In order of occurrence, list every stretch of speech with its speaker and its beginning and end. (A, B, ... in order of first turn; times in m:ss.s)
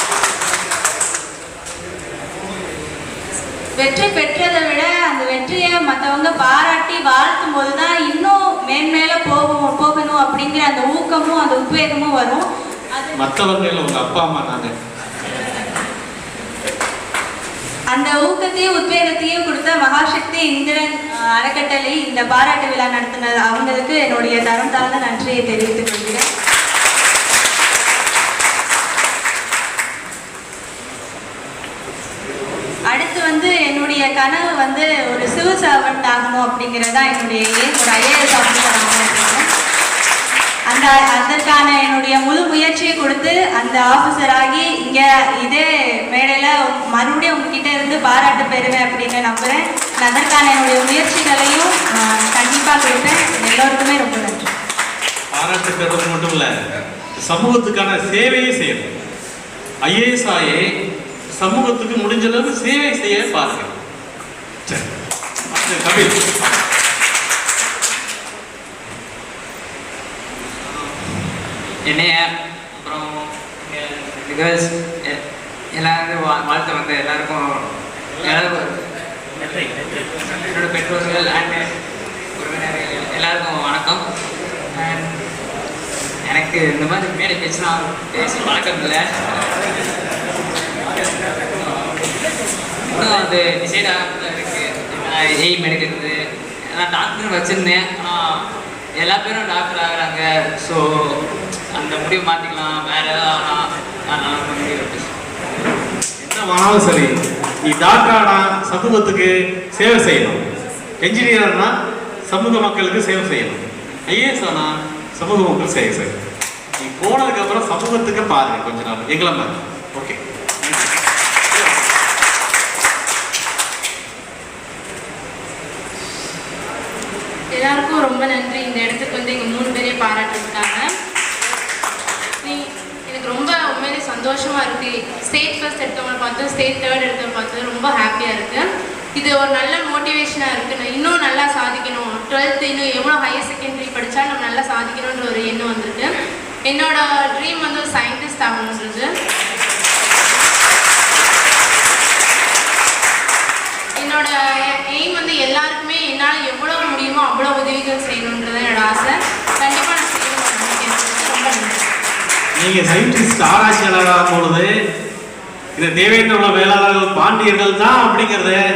0:03.8-0:13.1 A
0:13.2-0:14.7 B
0:17.9-0:26.3 A
0:32.9-0:39.5 A
0:40.7-0:54.5 A
0:55.3-0:56.5 B
0:57.3-0:58.9 B
0:59.8-1:00.6 B
1:01.4-1:03.7 B
1:05.5-1:06.6 B
1:10.7-1:11.0 C
1:11.8-1:15.2 C
1:15.7-1:17.7 C
1:18.2-1:18.8 C
1:19.4-1:19.9 C
1:20.4-1:21.7 C
1:22.4-1:24.0 C
1:24.8-1:25.2 C
1:26.2-1:29.5 C
1:30.9-1:31.9 C
1:32.9-1:41.2 C
1:41.7-1:45.2 C
1:46.2-1:47.1 B
1:47.6-1:50.4 B
1:51.0-1:51.7 B
1:52.3-1:56.2 B
1:56.8-2:00.9 B
2:07.5-2:10.8 D
2:12.4-2:18.6 D
2:19.2-2:26.1 D
2:26.7-2:29.1 D
2:34.0-2:41.9 D
2:42.6-2:44.7 B
2:45.8-2:48.6 B